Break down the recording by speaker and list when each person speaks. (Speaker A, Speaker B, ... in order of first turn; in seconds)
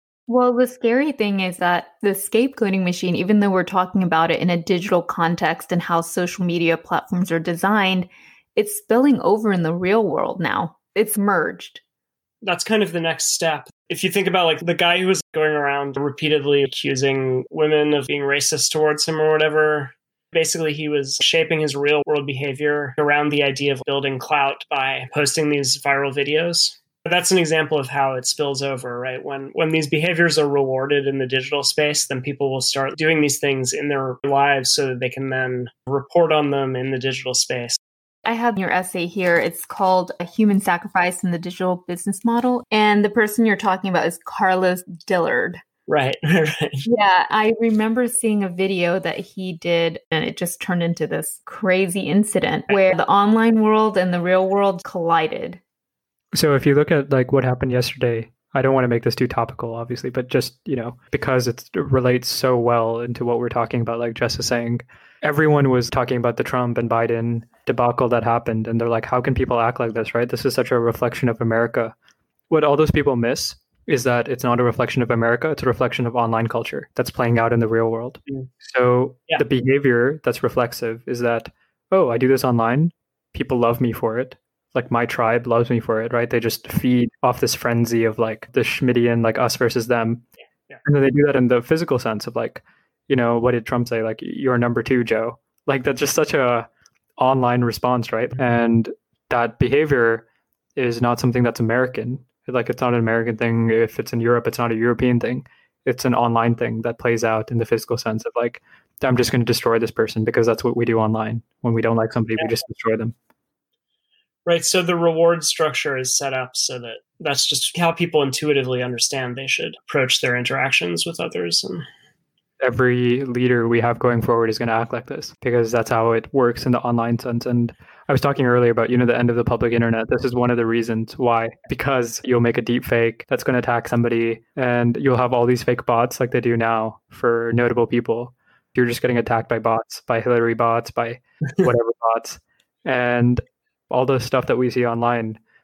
Speaker A: 0.3-11.8, 38.2-45.6, 46.8-55.6
Speaker B: 12.4-37.8, 45.9-46.9, 114.5-121.8
Speaker C: 56.3-71.9, 72.5-90.2, 90.8-96.7, 97.2-100.2, 100.8-113.1, 122.6-145.4